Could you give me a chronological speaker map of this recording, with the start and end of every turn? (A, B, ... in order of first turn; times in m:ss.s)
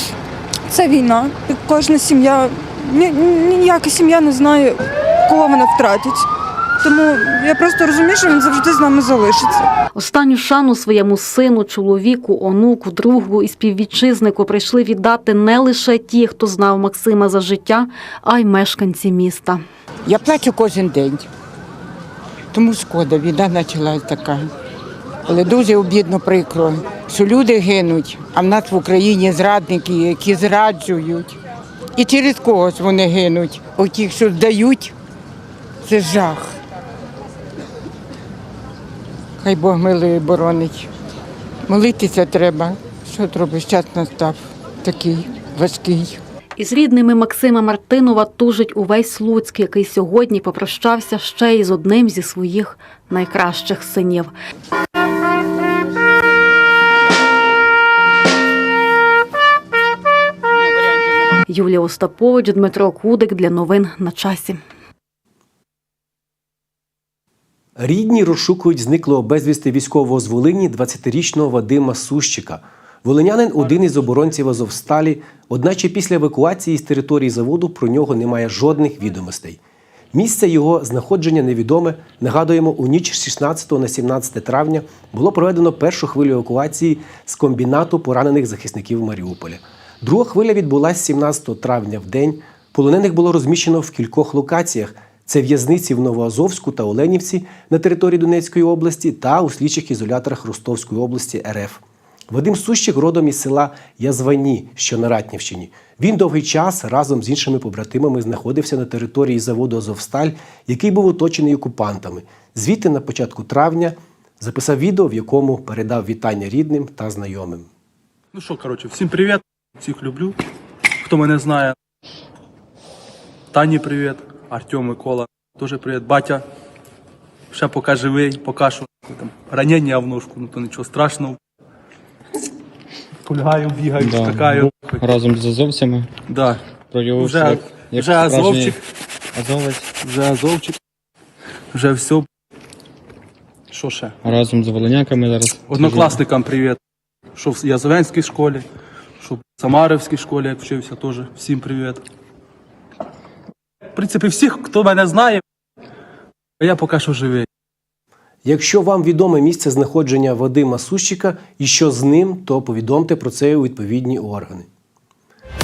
0:00.7-0:06.3 A
0:06.8-0:09.7 A
0:10.0-0:19.6 B
0:20.0-0:21.3 C
0:22.5-0:24.5 C
0:25.3-0:31.4 C
0:32.0-0:34.9 C
0:35.8-0:36.6 C
0:39.4-0:40.9 C
0:41.7-0:46.2 C
0:46.6-0:54.3 B
1:01.5-1:04.6 B
1:07.8-1:19.6 D
1:20.1-1:57.7 D
1:58.3-2:00.4 E
2:01.0-2:01.8 E
2:03.5-2:06.4 E
2:07.5-2:11.4 E
2:13.3-2:15.2 E
2:14.0-2:16.1 F
2:16.3-2:16.6 E
2:16.9-2:18.8 F
2:17.2-2:18.8 E
2:19.4-2:19.9 F
2:20.0-2:20.8 E
2:21.7-2:22.3 E
2:23.7-2:24.2 E
2:24.2-2:26.2 F
2:25.7-2:26.8 E
2:27.4-2:28.6 E
2:29.2-2:32.0 E
2:34.0-2:35.4 E
2:36.6-2:37.5 E
2:38.4-2:44.7 D